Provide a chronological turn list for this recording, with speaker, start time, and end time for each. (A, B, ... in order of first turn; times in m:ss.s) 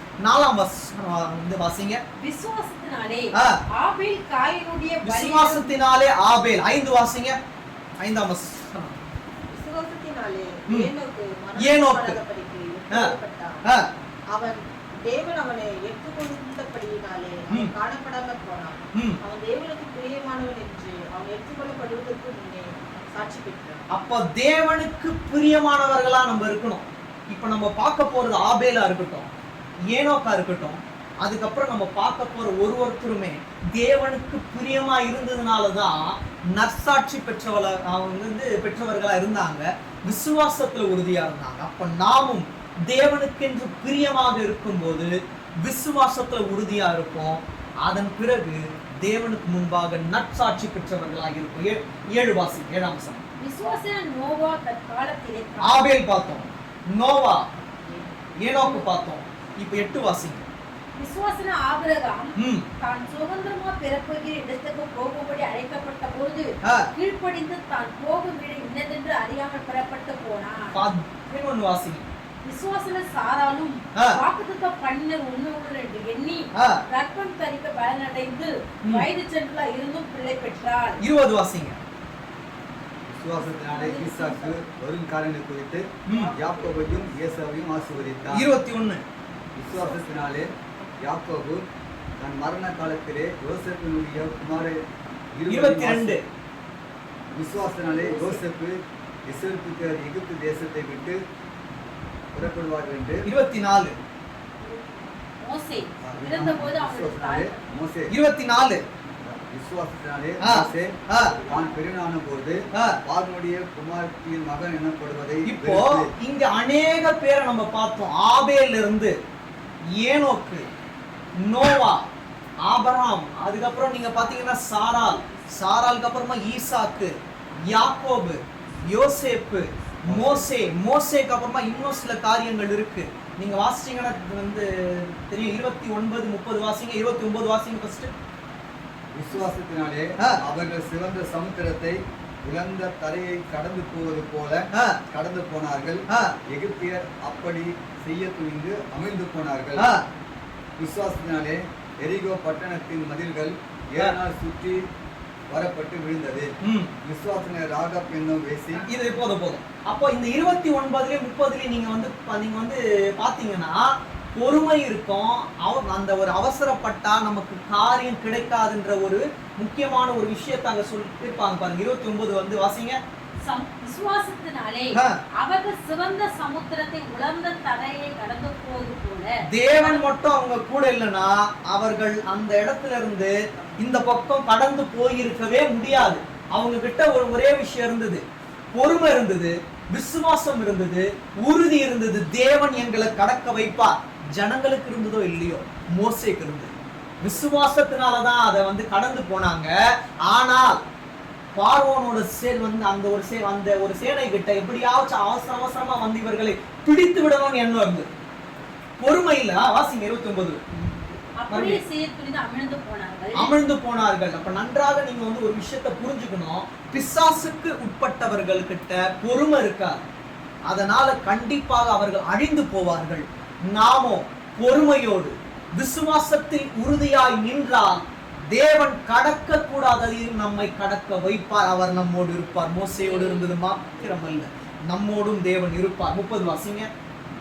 0:00.2-0:02.0 A
0:02.2-0:05.7 B
0:05.0-0:07.4 A
0:08.0-0:09.0 A
0:09.5-0:13.6 C
0:11.6-0:12.2 A
0:14.3-0:23.8 C
0:18.9-0:19.2 A
0:23.9-0:29.3 A
0:29.9-0:53.2 A
0:53.4-0:55.9 B
0:55.6-0:57.4 A
0:58.4-1:00.5 A
0:58.6-0:58.8 B
1:01.0-1:10.8 B
1:02.4-1:02.7 A
1:06.6-1:06.9 A
1:10.7-1:12.1 A
1:12.4-1:21.0 B
1:16.6-1:16.8 A
1:21.0-1:21.8 A
1:23.1-1:28.4 D
1:23.6-1:24.6 B
1:26.1-1:26.3 A
1:28.3-1:29.0 A
1:29.6-1:31.6 D
1:32.2-1:34.8 D
1:35.4-1:36.2 D
1:35.5-1:36.2 A
1:37.3-1:41.2 D
1:37.8-1:38.4 B
1:42.3-1:43.3 D
1:43.3-1:44.0 A
1:44.7-1:47.7 B
1:46.0-1:48.1 D
1:48.1-1:48.8 A
1:49.2-1:56.1 D
1:50.4-1:51.4 A
1:51.2-1:51.8 B
1:52.7-1:53.0 A
1:55.5-1:59.2 A
2:00.0-2:00.7 A
2:01.4-2:02.0 A
2:02.6-2:18.1 A
2:10.1-2:10.5 D
2:19.1-2:29.9 D
2:24.7-2:25.0 A
2:26.1-2:26.4 A
2:29.8-2:30.1 A
2:30.8-2:34.8 D
2:35.5-2:36.5 D
2:36.6-2:36.9 A
2:37.0-2:38.9 D
2:38.8-2:53.0 A
2:53.4-3:00.1 B
2:59.5-3:20.8 A
3:21.6-3:28.1 A
3:29.0-3:31.8 A
3:31.4-3:33.5 B
3:33.4-3:40.0 A
3:40.7-3:56.9 A
3:53.0-3:53.5 B